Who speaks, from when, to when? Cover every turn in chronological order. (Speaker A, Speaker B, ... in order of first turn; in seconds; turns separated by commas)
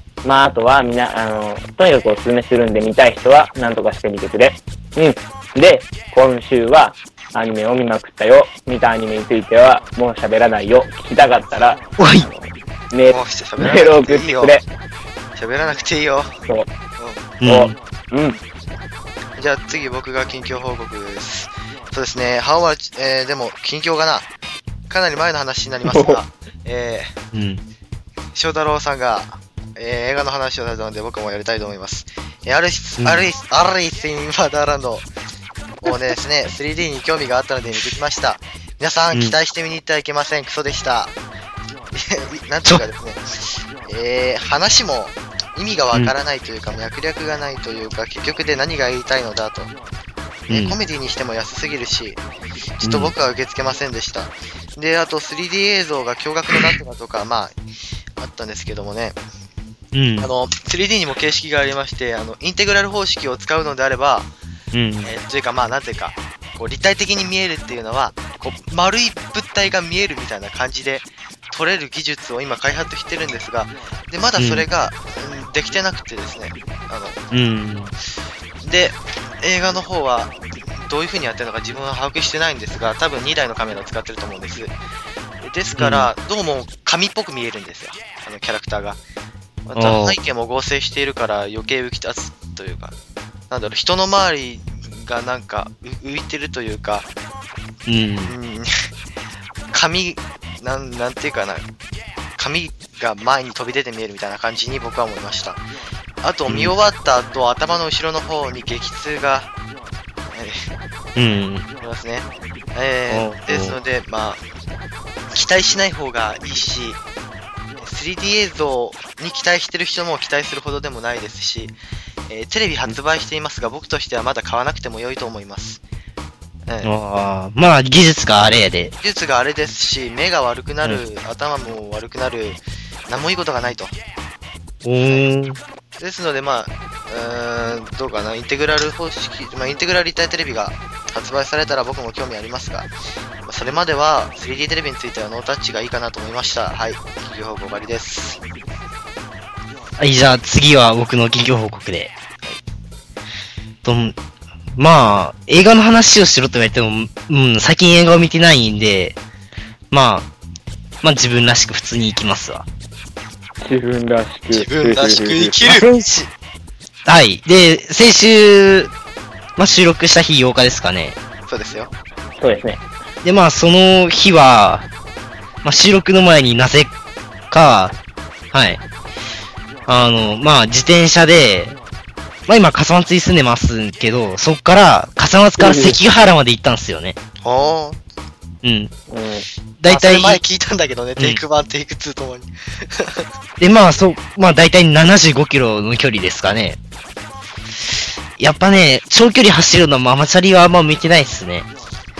Speaker A: 0.2-14.6, Speaker B: 12.0-12.3, Speaker C: 13.1-14.5, Speaker C: 15.4-16.3, Speaker C: 17.0-17.2, Speaker B: 17.4-17.7, Speaker A: 17.4-18.4, Speaker C: 19.4-24.3, Speaker C: 24.9-27.1, Speaker A: 25.8-26.2, Speaker B: 27.3-27.6, Speaker C: 28.3-35.1, Speaker B: 33.0-33.3, Speaker C: 35.8-41.1, Speaker C: 41.9-49.7, Speaker C: 50.5-52.2, Speaker B: 50.5-50.8, Speaker C: 52.8-57.5, Speaker B: 52.8-53.1, Speaker C: 58.2-59.2, Speaker B: 59.9-60.3, Speaker C: 60.2-64.3, Speaker B: 64.7-65.1, Speaker C: 65.0-77.2, Speaker B: 74.4-74.7, Speaker B: 77.3-77.9, Speaker C: 78.6-84.7, Speaker C: 85.4-89.0, Speaker B: 85.8-86.1, Speaker C: 89.7-92.9, Speaker B: 89.8-90.2, Speaker C: 93.5-97.1, Speaker B: 97.9-98.3, Speaker C: 98.3-98.7, Speaker C: 99.7-101.6, Speaker C: 102.4-105.6, Speaker C: 106.2-109.5, Speaker B: 106.5-106.7, Speaker C: 110.3-110.6, Speaker B: 111.2-111.7, Speaker C: 111.8-114.4, Speaker B: 113.1-113.8, Speaker C: 115.3-117.0, Speaker C: 117.8-121.7, Speaker C: 122.3-125.8, Speaker B: 126.8-128.9, Speaker C: 129.0-133.9, Speaker B: 134.8-135.6, Speaker C: 135.0-135.3, Speaker C: 136.0-142.9, Speaker C: 143.4-148.4, Speaker B: 150.0-152.1, Speaker B: 153.8-154.1, Speaker B: 154.7-159.2, Speaker B: 159.9-160.3, Speaker B: 161.0-162.7, Speaker A: 163.6-165.6, Speaker C: 164.5-165.9, Speaker B: 165.7-166.3, Speaker B: 167.1-168.9, Speaker B: 169.6-171.2, Speaker C: 171.5-171.9, Speaker A: 172.4-172.8, Speaker B: 173.2-174.9, Speaker B: 175.6-176.9, Speaker B: 177.5-177.9, Speaker B: 178.5-178.8, Speaker B: 179.9-181.7, Speaker B: 182.5-187.2, Speaker A: 185.6-186.0, Speaker C: 187.4-188.0, Speaker B: 188.6-188.9, Speaker A: 189.1-189.4, Speaker B: 189.8-190.4, Speaker C: 189.8-193.3, Speaker B: 193.6-196.8, Speaker B: 198.4-201.7